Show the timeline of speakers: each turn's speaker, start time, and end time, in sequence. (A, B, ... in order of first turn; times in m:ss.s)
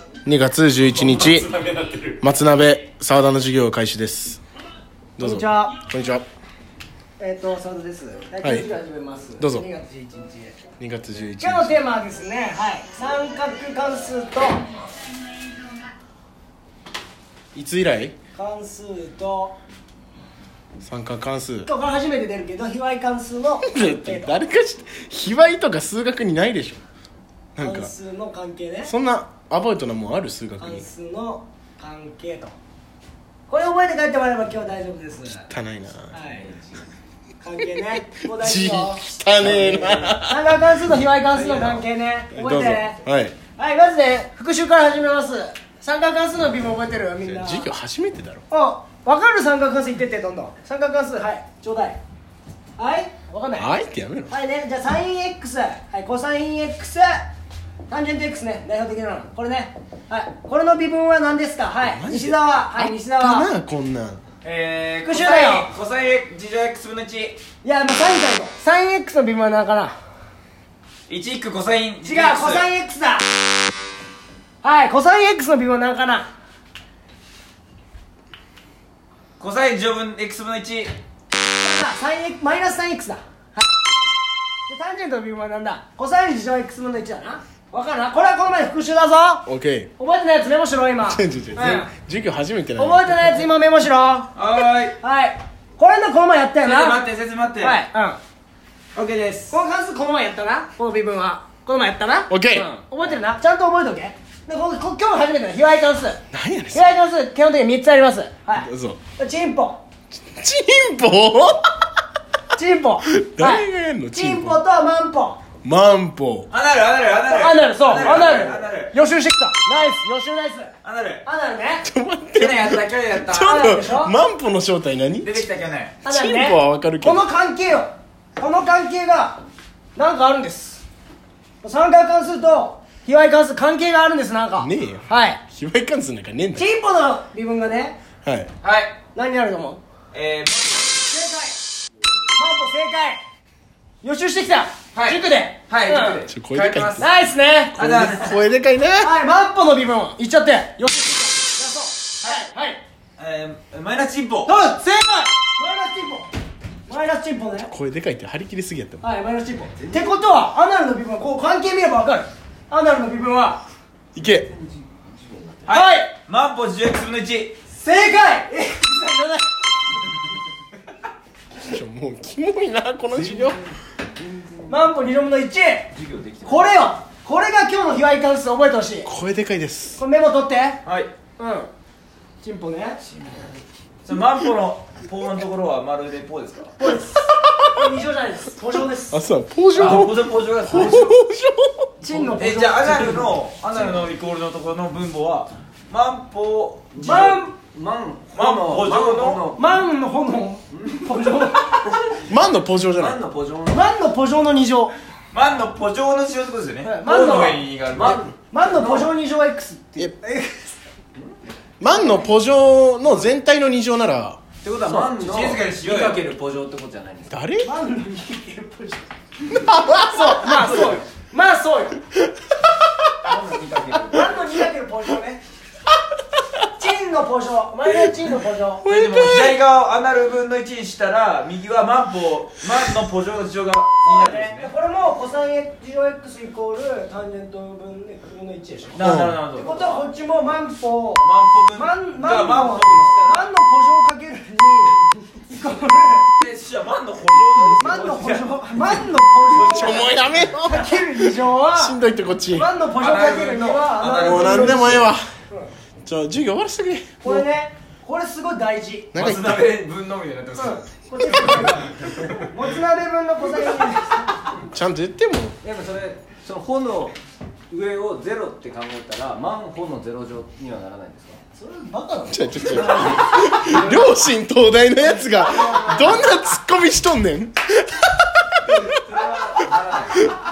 0:00.2-0:01.5 A
0:01.0-0:02.1 B
0:02.2-0:04.4 A
0:05.2-0:06.2 A
0:05.2-0:05.8 C
0:07.2-0:10.6 C
0:08.4-0:08.7 A
0:09.4-0:09.6 A
0:10.8-0:11.8 A
0:11.4-0:14.7 C
0:17.5-0:18.2 A
0:18.3-0:19.6 C
0:20.8-0:21.7 A
0:21.6-0:24.4 C
0:23.6-0:26.8 A
0:27.6-0:27.9 A
0:27.6-0:28.9 C
0:28.8-0:30.8 A
0:30.6-0:32.5 C
0:33.5-0:35.5 C
0:35.5-0:36.1 A
0:36.1-0:36.5 C
0:36.3-0:36.8 D
0:37.4-0:43.0 C
0:38.3-0:40.7 A
0:39.5-0:40.0 D
0:41.5-0:41.8 A
0:42.3-0:43.4 A
0:43.6-0:47.7 C
0:47.2-0:48.4 A
0:48.5-0:52.0 C
0:52.8-0:53.7 C
0:53.6-0:54.3 A
0:54.3-0:57.2 C
0:57.9-1:03.5 C
1:01.8-1:04.2 A
1:04.4-1:07.4 B
1:05.0-1:05.7 C
1:07.6-1:09.9 C
1:11.1-1:12.7 B
1:12.0-1:13.2 C
1:14.6-1:16.3 C
1:19.4-1:20.9 B
1:21.6-1:23.7 C
1:24.7-1:29.4 C
1:29.4-1:29.9 A
1:30.0-1:31.9 C
1:31.0-1:33.5 A
1:32.8-1:34.3 C
1:34.4-1:35.0 B
1:34.9-1:37.0 C
1:36.6-1:37.8 B
1:37.6-1:38.2 C
1:38.9-1:39.6 B
1:39.5-1:46.2 C
1:42.3-1:42.7 A
1:46.3-1:46.8 A
1:46.7-1:49.8 C
1:48.6-1:49.0 A
1:50.1-1:51.8 A
1:52.5-1:55.4 C
1:53.2-1:54.6 A
1:55.6-1:56.5 A
1:56.5-1:58.9 B
1:57.2-2:01.8 C
2:00.8-2:01.2 B
2:01.8-2:05.4 A
2:02.3-2:03.6 B
2:03.4-2:04.1 C
2:05.2-2:06.0 B
2:06.0-2:09.4 C
2:06.0-2:07.2 A
2:09.9-2:10.8 C
2:11.6-2:15.4 C
2:14.6-2:16.6 A
2:16.5-2:18.0 C
2:18.2-2:18.5 A
2:18.6-2:18.9 B
2:19.1-2:19.8 C
2:20.1-2:20.9 B
2:21.0-2:21.6 C
2:22.3-2:23.2 C
2:24.0-2:26.2 C
2:24.9-2:27.1 B
2:26.3-2:27.1 A
2:27.0-2:27.8 C
2:27.7-2:29.1 A
2:27.8-2:28.4 B
2:29.0-2:32.8 C
2:33.2-2:34.5 B
2:34.4-2:36.3 C
2:36.9-2:37.7 C
2:37.6-2:39.0 A
2:39.0-2:43.6 C
2:39.7-2:40.4 D
2:44.1-2:44.5 A
2:44.2-2:45.7 D
2:45.6-2:47.6 B
2:45.7-2:46.1 C
2:47.7-2:49.7 C
2:51.6-2:53.6 A
2:53.1-2:54.9 D
2:54.7-2:55.9 C
2:55.9-2:56.7 B
2:56.4-2:59.1 C
2:59.0-3:00.0 A
3:00.0-3:00.8 C
3:00.8-3:01.1 B
3:01.4-3:01.7 C
3:02.4-3:03.0 C
3:03.0-3:03.5 B
3:04.0-3:06.8 B
3:06.8-3:09.2 C
3:07.3-3:07.9 A
3:09.1-3:11.9 A
3:09.7-3:11.1 B
3:12.0-3:13.3 C
3:12.3-3:17.0 B
3:13.7-3:14.0 D
3:16.9-3:19.7 D
3:17.0-3:17.5 C
3:18.3-3:19.5 B
3:19.6-3:21.7 C
3:20.7-3:22.1 D
3:22.2-3:23.2 A
3:23.0-3:23.9 D
3:23.7-3:24.9 C
3:25.3-3:28.3 B
3:26.8-3:30.7 C
3:27.9-3:29.1 D
3:31.8-3:34.4 A
3:34.6-3:37.3 D
3:34.8-3:36.3 B
3:37.3-3:37.7 A
3:37.6-3:39.1 C
3:39.5-3:40.9 A
3:40.0-3:42.0 C
3:43.2-3:44.4 D
3:44.1-3:45.4 C
3:46.7-3:48.8 C
3:48.8-3:49.6 A
3:48.9-3:54.7 B
3:54.0-3:59.0 C
3:58.9-4:00.0 B
3:59.0-3:59.4 A
3:59.6-4:06.3 C
4:01.2-4:03.5 B
4:06.4-4:10.5 B
4:07.8-4:12.0 C
4:09.6-4:12.7 A
4:12.5-4:15.7 C
4:13.0-4:15.1 B
4:14.1-4:15.3 A
4:16.0-4:17.4 A
4:17.2-4:19.2 C
4:19.1-4:19.6 A
4:19.1-4:22.5 B
4:20.5-4:22.0 C
4:22.5-4:24.3 C
4:24.7-4:25.6 A
4:25.6-4:27.1 D
4:27.7-4:31.4 D
4:31.5-4:33.1 C
4:32.3-4:38.4 A
4:32.8-4:33.2 D
4:35.3-4:36.2 C
4:38.8-4:40.3 D
4:39.1-4:40.1 B